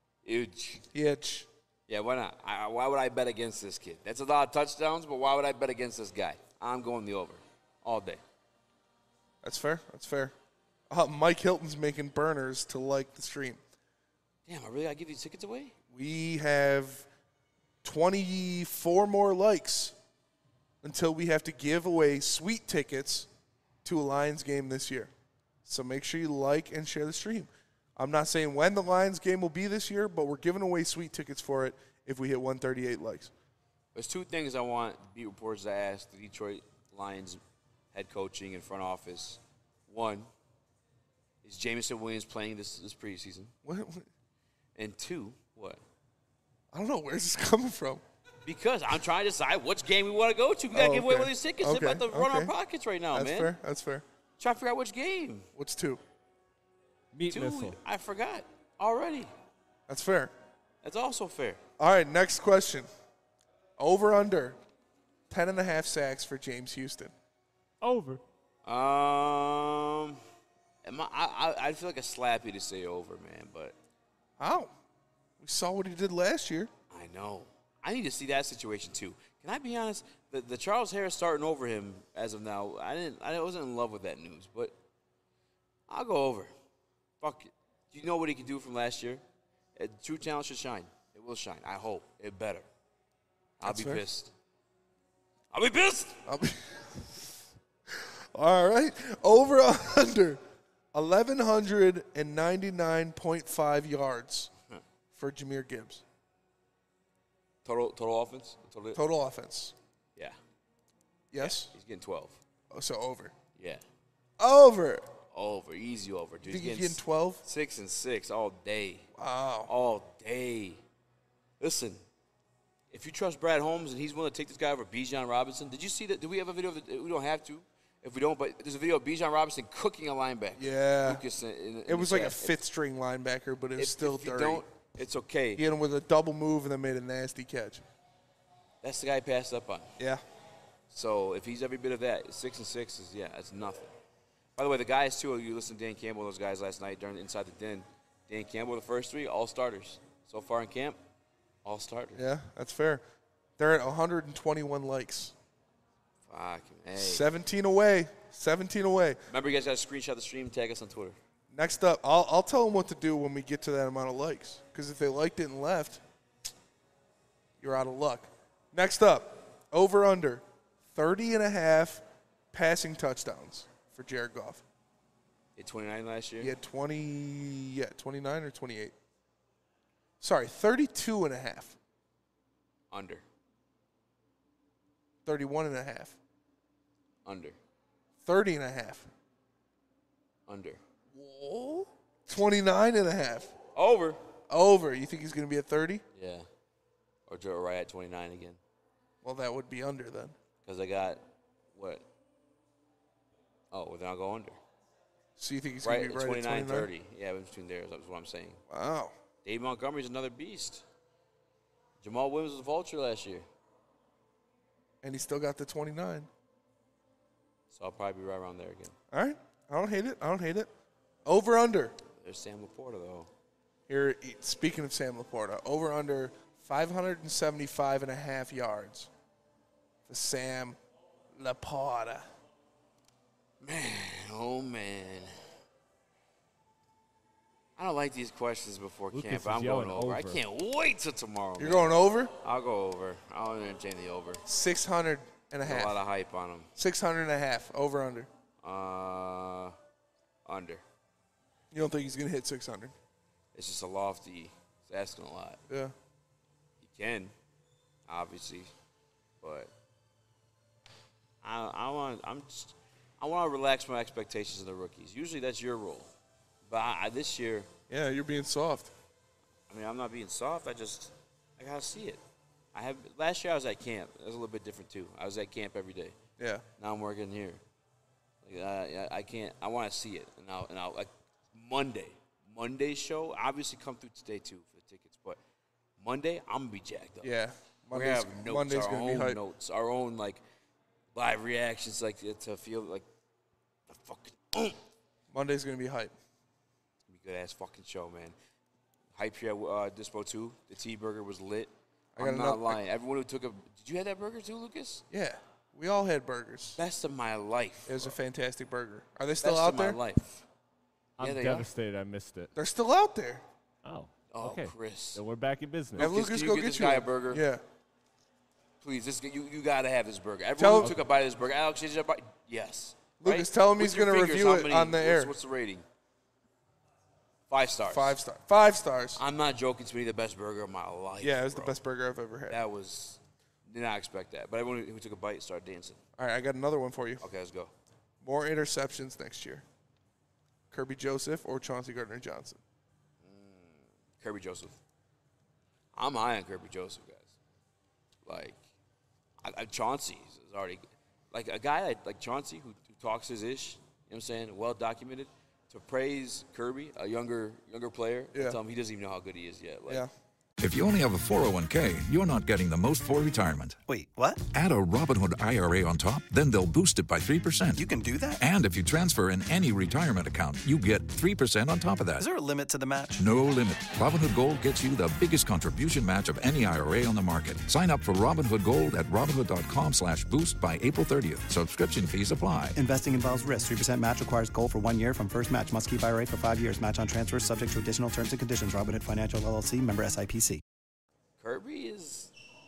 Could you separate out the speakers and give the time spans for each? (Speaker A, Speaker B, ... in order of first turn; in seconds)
Speaker A: 0.2-0.8, 1.9-8.2, 14.5-15.7, 33.9-37.4, 37.9-40.3, 41.4-43.5, 44.8-45.8, 48.4-53.5, 54.4-55.5, 57.3-59.3, 60.8-61.6, 68.6-70.2, 70.8-73.7, 76.9-84.7, 85.9-86.5, 87.2-89.2, 89.8-92.7, 93.6-94.3, 95.5-96.2, 107.6-109.0, 111.4-112.4, 113.5-113.8, 115.3-119.1, 119.7-120.8, 121.6-122.0, 122.9-132.6, 133.8-135.6, 138.8-139.9, 140.9-143.9, 144.6-151.0, 151.6-152.2, 156.2-157.3, 159.3-161.2, 175.6-176.5, 182.9-183.2, 187.2-187.6, 190.5-190.8, 193.7-194.2, 196.1-196.5, 197.3-198.6, 200.6-201.2, 201.7-202.0, 203.7-204.6, 205.8-208.6, 209.4-210.8, 212.0-213.4, 217.7-218.9, 222.2-223.3, 233.6-235.3, 237.8-244.4, 245.6-246.7, 248.6-249.7, 250.4-250.8, 253.5-255.6, 256.8-257.3, 258.1-258.7, 259.4-259.7, 261.4-266.1, 266.6-267.7, 269.7-272.2, 272.7-276.1, 276.8-277.6, 278.4-285.4, 286.0-287.3, 287.9-290.4, 291.1-293.0, 293.9-294.8, 297.1-298.3, 299.1-305.0, 306.8-308.2, 309.4-310.4, 311.2-311.7, 314.3-315.2, 316.0-317.4, 318.8-325.8, 327.5-328.2, 329.1-331.8, 332.5-336.0, 337.2-337.7, 343.2-344.8, 345.9-347.3, 348.2-348.6, 349.4-360.0, 391.4-392.3
Speaker B: 0.9-1.5, 9.4-10.3, 10.9-13.6, 15.9-17.1, 17.8-19.9, 20.8-23.3, 23.8-25.1, 25.6-33.3, 43.6-44.1, 46.7-48.0, 50.7-52.5, 53.1-54.0, 55.5-56.0, 59.9-60.3, 61.8-62.9, 63.8-64.6, 65.3-67.1, 74.4-74.7, 75.4-76.7, 93.6-94.0, 96.2-97.2, 97.9-100.4, 100.9-104.5, 105.1-106.0, 108.9-109.7, 111.3-111.7, 112.7-113.3, 114.4-115.0, 116.5-117.4, 119.2-119.7, 130.6-131.2, 131.9-134.6, 135.6-137.8, 152.2-153.0, 153.6-155.3, 157.0-159.2, 161.5-166.0, 167.6-174.6, 176.4-178.9, 180.2-181.8, 185.2-186.2, 188.2-189.1, 191.1-193.5, 194.5-196.0, 199.2-200.3, 205.4-206.9, 208.7-209.1, 215.0-216.3, 219.1-220.7, 221.2-221.9, 223.9-229.1, 230.1-230.8, 231.4-232.3, 241.6-242.3, 244.4-246.0, 246.8-248.3, 251.7-252.9, 255.7-255.9, 267.9-268.9, 276.4-276.6, 287.2-289.4, 295.3-296.1, 302.1-302.8, 305.1-306.8, 307.9-310.0, 312.5-313.4, 316.0-317.6, 320.6-321.0, 323.2-325.3, 327.9-329.2, 331.2-332.6, 336.2-337.2, 338.2-339.6, 340.7-342.6
Speaker C: 57.1-57.8, 67.8-68.2, 239.1-240.4, 311.2-312.5, 313.8-316.1
Speaker D: 360.6-363.8, 364.5-372.3, 373.2-382.8
Speaker E: 363.9-364.4, 367.8-368.4, 372.2-373.2, 382.8-390.6